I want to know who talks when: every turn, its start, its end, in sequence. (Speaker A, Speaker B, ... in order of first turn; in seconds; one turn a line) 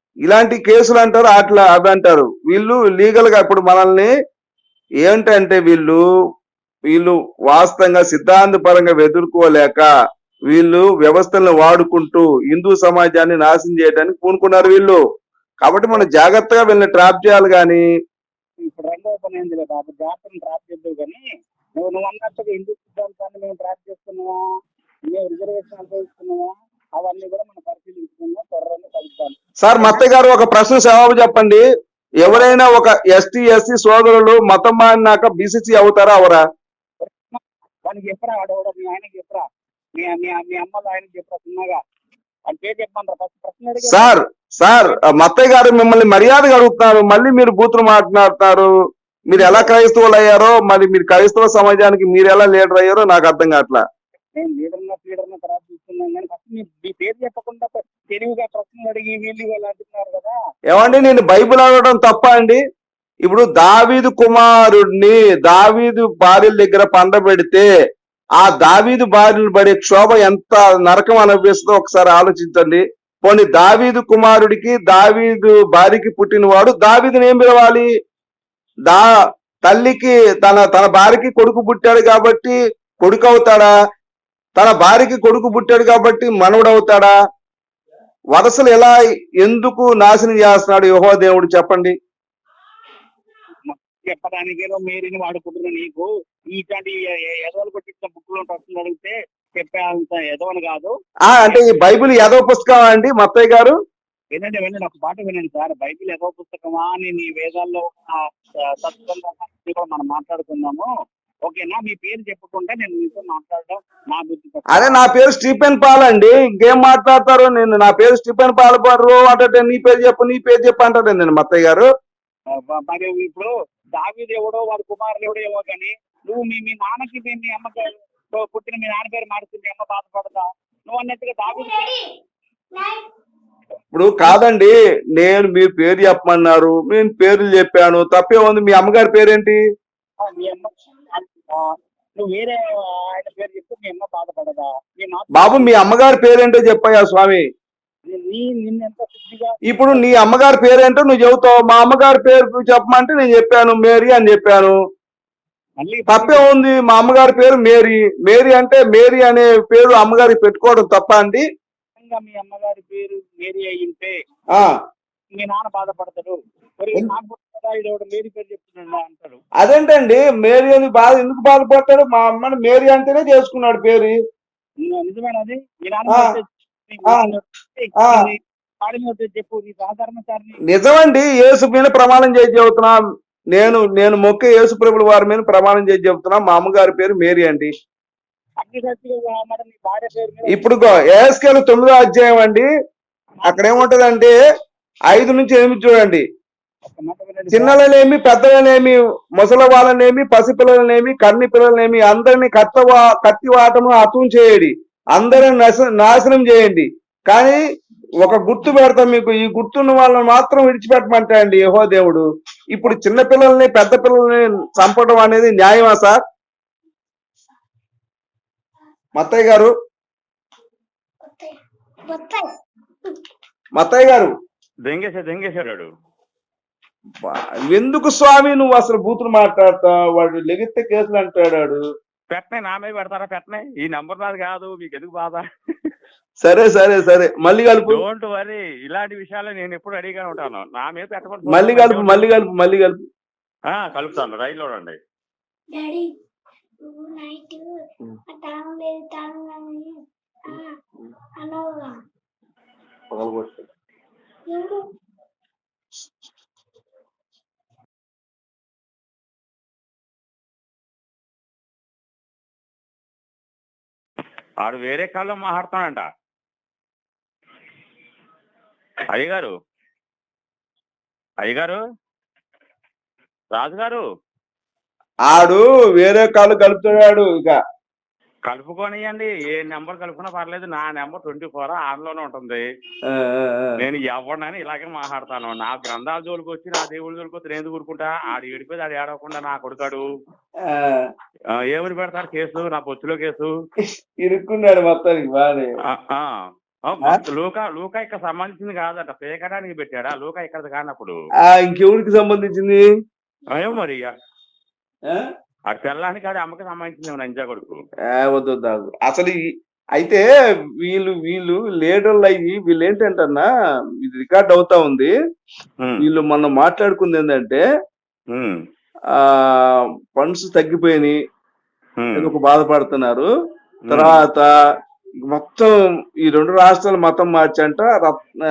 Speaker A: 0.2-4.1
Speaker A: 5.0-6.0
Speaker A: 6.9-9.9
Speaker A: 10.5-15.0
Speaker A: 15.6-17.9
Speaker B: 18.6-21.2
Speaker B: 21.8-24.4
Speaker B: 25.1-30.0
Speaker A: 29.6-31.6
Speaker A: 32.2-36.4
Speaker B: 37.0-39.4
Speaker B: 39.9-41.8
Speaker B: 42.5-44.1
Speaker A: 43.8-48.7
Speaker B: 44.8-45.0
Speaker A: 49.3-53.8
Speaker B: 49.4-49.7
Speaker B: 54.3-60.3
Speaker A: 60.7-62.6
Speaker A: 63.2-67.7
Speaker A: 68.4-77.9
Speaker A: 79.6-83.7
Speaker A: 84.6-87.1
Speaker A: 88.3-91.9
Speaker B: 93.7-101.7
Speaker A: 101.3-103.8
Speaker B: 104.3-110.9
Speaker B: 111.4-115.0
Speaker A: 114.7-121.9
Speaker B: 122.5-131.9
Speaker C: 131.5-132.1
Speaker C: 132.7-133.1
Speaker A: 133.9-139.6
Speaker B: 140.2-145.8
Speaker A: 145.3-147.5
Speaker B: 148.1-150.1
Speaker A: 149.7-154.8
Speaker B: 155.8-156.4
Speaker A: 156.1-161.4
Speaker B: 162.0-164.2
Speaker B: 165.3-169.4
Speaker A: 169.6-174.2
Speaker B: 174.8-180.6
Speaker A: 178.0-178.3
Speaker A: 180.7-183.0
Speaker A: 183.5-187.7
Speaker B: 188.6-190.7
Speaker A: 190.5-192.7
Speaker B: 193.4-193.8
Speaker A: 193.5-194.3
Speaker A: 195.1-196.2
Speaker B: 196.8-197.9
Speaker A: 197.5-207.6
Speaker A: 208.2-216.2
Speaker A: 219.2-219.7
Speaker C: 221.2-222.5
Speaker A: 223.8-224.3
Speaker D: 224.9-225.9
Speaker A: 227.2-231.8
Speaker D: 232.3-235.9
Speaker A: 236.4-238.0
Speaker D: 237.9-242.2
Speaker A: 241.5-243.0
Speaker D: 243.7-245.0
Speaker C: 245.7-246.1
Speaker C: 246.8-247.7
Speaker C: 248.3-250.8
Speaker C: 251.4-252.0
Speaker A: 253.1-253.6
Speaker C: 254.5-254.8
Speaker D: 264.6-266.0
Speaker D: 269.1-269.5
Speaker D: 271.4-271.8
Speaker D: 273.5-274.0
Speaker A: 275.3-277.6
Speaker D: 278.5-282.6
Speaker A: 283.1-283.8
Speaker D: 283.8-290.0
Speaker A: 290.6-291.1
Speaker D: 291.5-293.5
Speaker A: 293.8-295.7
Speaker D: 295.8-301.2
Speaker A: 301.4-302.9
Speaker D: 303.5-304.1
Speaker D: 305.7-307.8
Speaker A: 308.1-309.4
Speaker A: 309.9-310.2
Speaker A: 310.8-313.5
Speaker A: 314.0-315.1
Speaker D: 315.8-316.1
Speaker A: 316.0-317.6
Speaker D: 318.3-318.6
Speaker A: 319.1-321.2
Speaker D: 322.0-322.3
Speaker A: 322.1-323.3
Speaker D: 323.8-324.2
Speaker A: 323.9-324.5
Speaker A: 325.3-328.3